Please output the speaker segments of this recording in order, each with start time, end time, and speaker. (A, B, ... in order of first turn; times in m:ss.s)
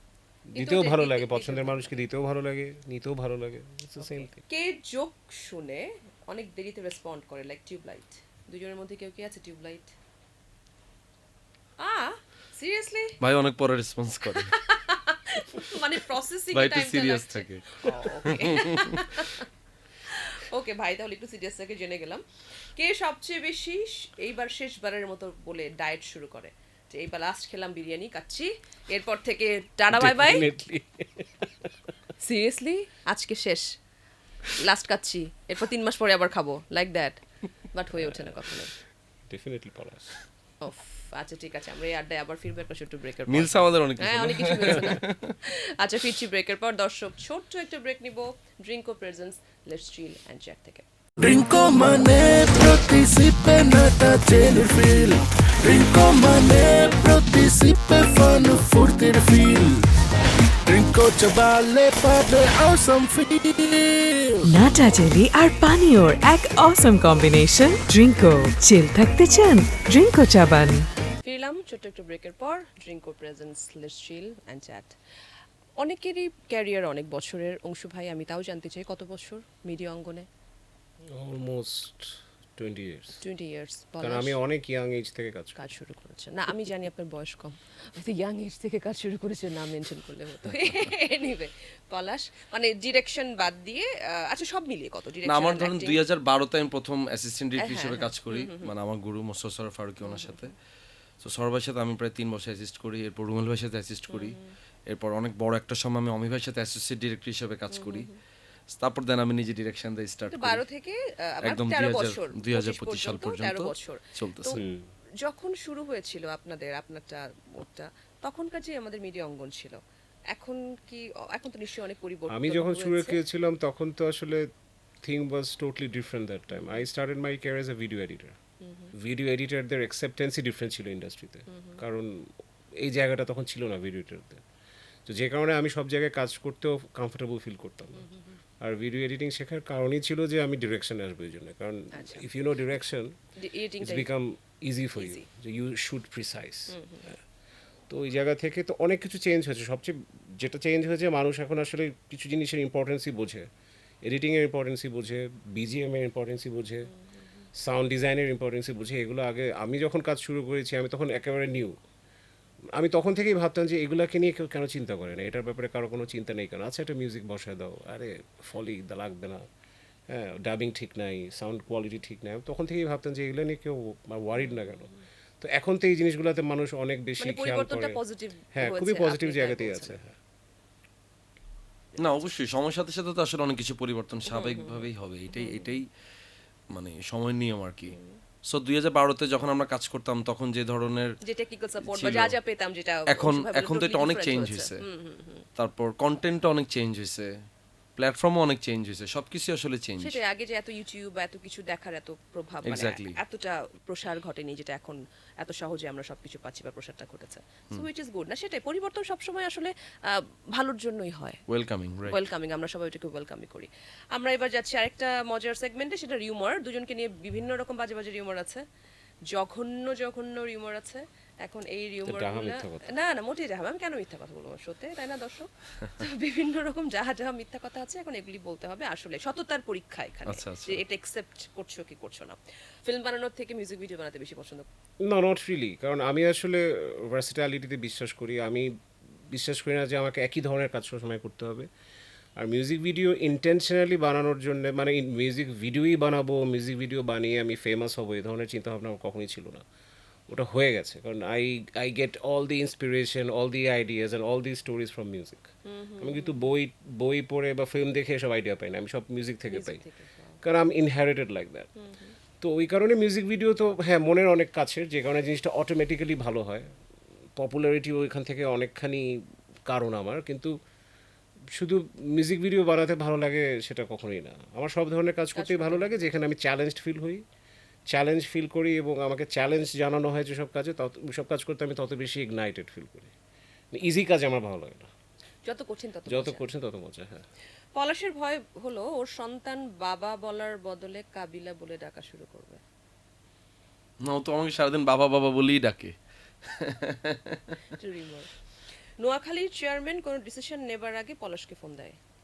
0:00.5-0:04.4 A
0:00.6-0:02.0 B
0:04.0-0:09.9 B
0:11.8-0:13.2 B
0:13.2-0:14.6 C
0:14.3-0:19.5 B
0:16.5-0:19.1 C
0:20.0-0:22.2 B
0:22.8-0:30.5 B
0:29.9-0:31.7 A
0:32.2-0:33.7 B
0:34.6-0:37.2 B
0:37.7-0:38.7 B
0:38.1-0:38.5 A
0:39.3-0:40.2 A
0:40.6-0:50.8 B
0:43.3-0:45.4 C
0:51.2-0:59.9 D
1:00.7-1:04.4 D
1:04.4-1:10.8 E
1:11.2-1:14.9 B
1:15.8-1:20.3 B
1:21.1-1:23.2 A
1:23.2-1:24.4 B
1:24.0-1:25.6 A
1:25.6-1:36.0 B
1:30.5-1:30.8 C
1:35.2-1:40.5 C
1:37.6-1:38.7 B
1:40.0-1:40.5 B
1:41.2-1:44.4 C
1:44.1-1:44.5 B
1:44.9-1:48.1 C
1:47.7-1:48.2 B
1:48.7-1:50.6 C
1:50.3-1:54.6 B
1:51.4-1:54.6 C
1:54.6-1:54.9 A
1:55.2-2:03.2 B
2:02.3-2:04.5 A
2:05.0-2:08.4 A
2:06.5-2:06.9 B
2:08.6-2:08.9 B
2:08.9-2:14.4 A
2:11.5-2:11.8 B
2:15.1-2:18.1 A
2:18.0-2:18.4 B
2:18.6-2:23.1 A
2:21.9-2:22.2 B
2:23.4-2:24.1 B
2:23.8-2:27.2 A
2:25.0-2:25.3 B
2:26.7-2:27.0 B
2:27.9-2:33.5 A
2:34.0-2:36.9 A
2:36.9-2:37.5 B
2:37.6-2:41.8 A
2:42.7-2:49.4 A
2:50.1-2:58.0 A
2:54.4-2:54.9 B
2:57.2-3:00.0 B
2:58.5-3:00.1 A
3:02.0-3:05.9 C
3:04.3-3:05.8 B
3:06.7-3:11.1 C
3:07.9-3:08.2 B
3:11.2-3:15.4 B
3:11.8-3:12.4 C
3:13.1-3:14.8 C
3:15.6-3:17.3 C
3:18.0-3:20.2 C
3:20.0-3:31.4 B
3:22.6-3:23.2 C
3:31.5-3:32.2 C
3:32.1-3:38.6 B
3:39.3-3:54.7 B
3:42.0-3:42.9 A
3:50.2-3:50.8 C
3:55.0-3:58.7 A
3:59.3-4:01.7 A
4:02.4-4:09.6 A
4:10.3-4:19.8 A
4:15.6-4:16.5 B
4:19.5-4:20.4 B
4:20.4-4:21.7 A
4:21.8-4:22.2 B
4:22.4-4:26.7 A
4:27.4-4:30.6 A
4:31.5-4:37.2 A
4:35.4-4:36.1 B
4:37.9-4:43.1 A
4:43.7-4:44.9 A
4:45.4-4:46.4 B
4:46.1-4:47.2 A
4:47.7-4:52.6 B
4:54.0-4:57.6 C
4:57.8-4:58.3 B
4:59.0-5:02.0 B